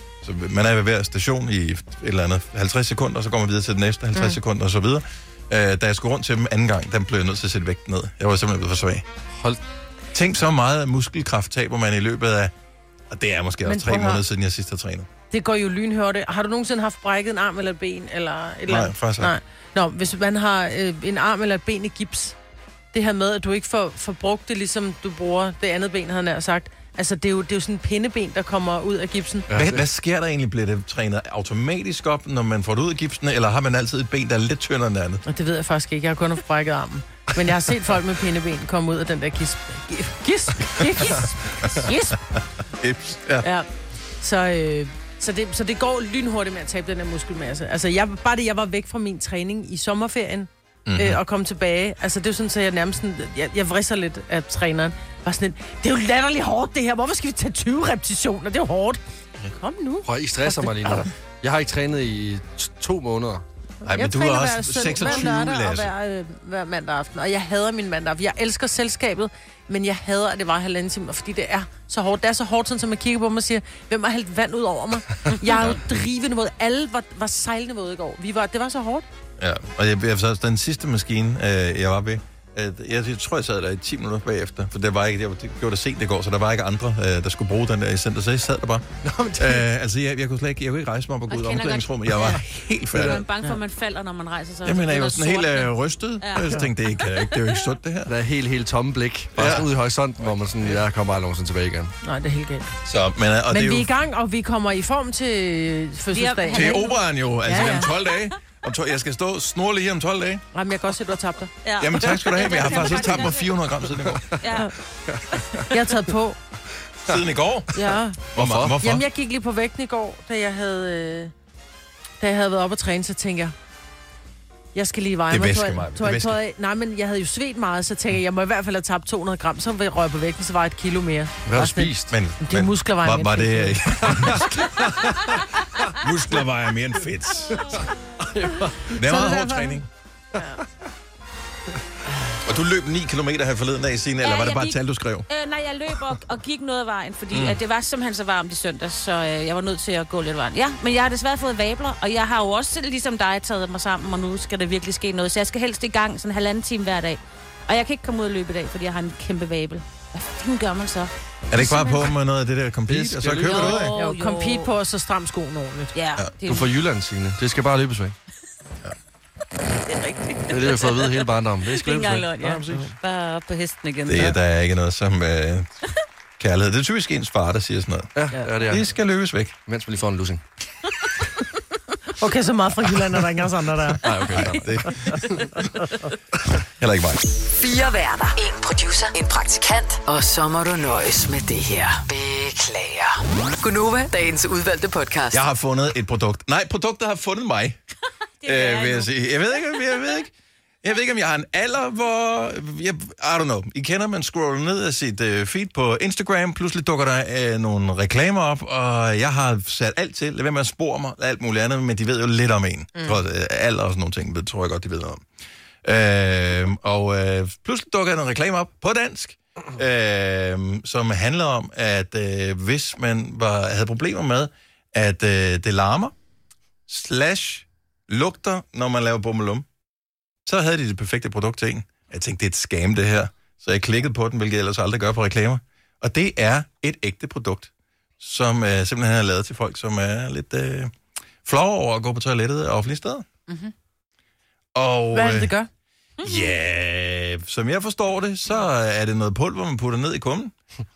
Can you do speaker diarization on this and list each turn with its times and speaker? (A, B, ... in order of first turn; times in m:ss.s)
0:00.2-0:09.0 A
0:10.1-0:12.5 A
0:13.1-0:15.1 A
0:13.6-0:14.2 B
0:15.3-0:22.4 B
0:18.7-0:19.3 A
0:22.9-0:29.5 B
0:29.5-0:29.8 C
0:29.5-0:35.2 A
0:35.2-0:42.2 B
0:42.8-0:43.5 A
0:43.4-0:43.7 B
0:44.2-1:01.1 B
0:50.8-0:51.2 A
1:00.0-1:03.4 C
1:03.8-1:19.0 B
1:03.8-1:05.9 A
1:19.4-1:28.8 A
1:29.0-1:29.6 C
1:29.4-1:33.2 A
1:31.3-1:32.4 D
1:32.9-1:33.2 C
1:33.0-1:37.6 D
1:34.6-1:38.1 A
1:38.1-1:41.9 C
1:39.4-1:39.7 A
1:40.2-1:40.8 A
1:42.0-1:42.7 B
1:42.8-1:43.9 A
1:43.5-1:46.8 B
1:46.1-1:47.0 D
1:46.5-1:50.4 A
1:47.4-1:47.9 B
1:50.5-1:51.5 B
1:51.6-1:53.5 D
1:51.8-1:54.4 A
1:54.4-1:54.7 D
1:55.0-1:55.6 C
1:55.6-1:56.4 B
1:57.0-1:57.7 A
1:57.7-1:58.3 B
1:58.3-1:59.0 A
1:58.3-1:58.8 C
1:58.8-2:01.3 B
2:02.2-2:03.5 B
2:04.7-2:14.2 B
2:05.3-2:06.4 A
2:11.5-2:12.1 C
2:12.1-2:14.6 A
2:14.0-2:15.9 C
2:16.0-2:17.7 A
2:17.5-2:18.9 C
2:18.9-2:19.8 A
2:19.0-2:19.8 B
2:20.4-2:20.6 B
2:22.4-2:25.3 A
2:24.2-2:24.8 D
2:25.3-2:42.1 D
2:27.3-2:27.6 A
2:41.5-2:44.0 A
2:42.9-2:43.9 C
2:43.4-2:44.7 D
2:44.0-2:45.9 B
2:45.9-2:46.7 D
2:46.5-2:48.1 C
2:49.8-2:54.3 D
2:50.5-2:53.0 C
2:54.1-2:55.7 A
2:56.4-2:58.1 A
2:58.1-2:58.9 C
2:58.6-2:59.5 A
2:59.6-3:00.4 C
3:02.2-3:04.1 B
3:04.0-3:04.7 C
3:04.1-3:05.2 A
3:04.2-3:04.4 D
3:04.8-3:05.2 B
3:06.8-3:07.3 A
3:07.5-3:15.4 E
3:15.3-3:17.8 A
3:18.4-3:19.8 D
3:18.4-3:35.2 A
3:35.8-3:46.1 A
3:46.9-3:49.6 A
3:50.4-4:03.2 A
4:04.7-4:05.5 A
4:05.1-4:05.7 B
4:06.2-4:10.5 A